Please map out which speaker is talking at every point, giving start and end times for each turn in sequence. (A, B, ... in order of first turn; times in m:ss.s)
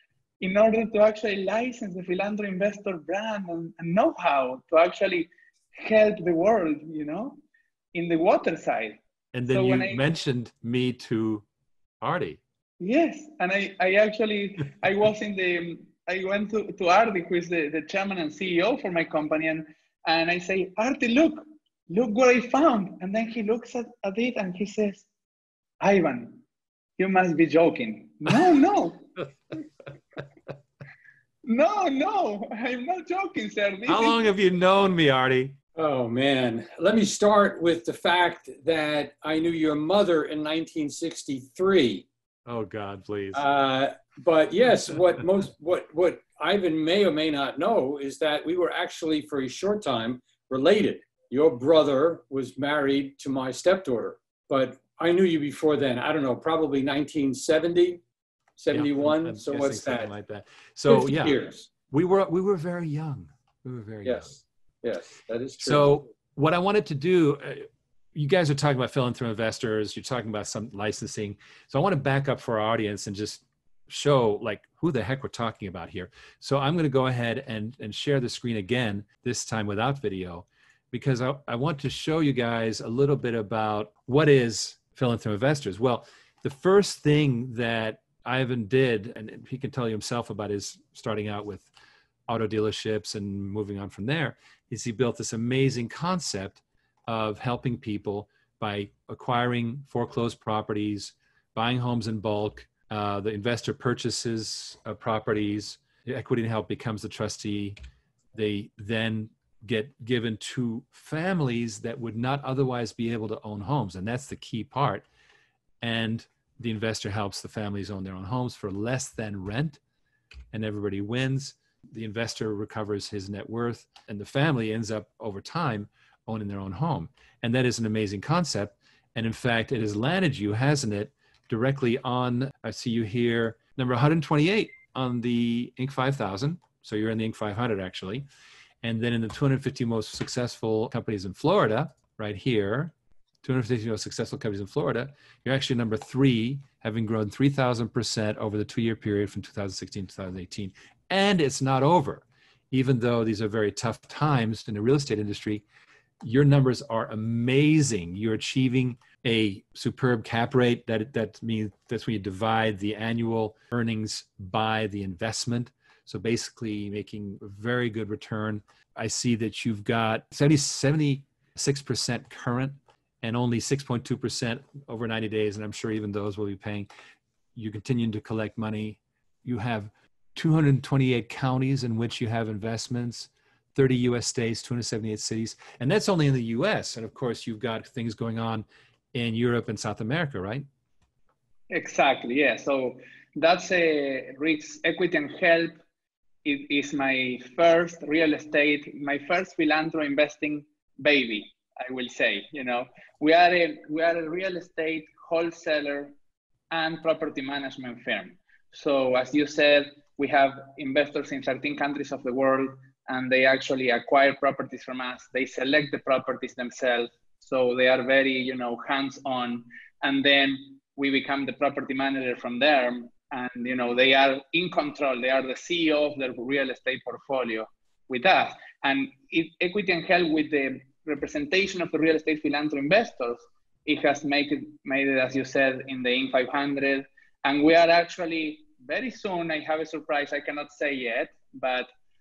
0:00.4-0:07.4 A
0:07.9-0:10.0 A
0:09.3-0:11.4 B
0:12.0-0:12.4 B
0:12.8-0:25.0 A
0:25.8-0:26.4 A
0:27.0-0:29.0 A
0:31.4-0:34.2 A
0:33.9-0:35.6 B
0:35.8-0:42.1 C
0:42.4-0:43.4 B
0:43.3-0:58.0 C
0:58.6-1:00.1 C
0:58.7-1:04.4 B
1:00.9-1:01.7 C
1:04.0-1:04.3 C
1:04.8-1:06.0 C
1:05.6-1:31.7 B
1:32.3-1:47.8 B
1:48.3-1:55.0 B
1:55.8-1:59.8 B
2:00.5-2:18.2 B
2:18.8-2:35.6 B
2:36.2-2:56.9 B
2:57.5-3:10.6 B
3:11.7-3:15.8 A
3:16.4-3:26.1 A
3:26.7-4:01.9 A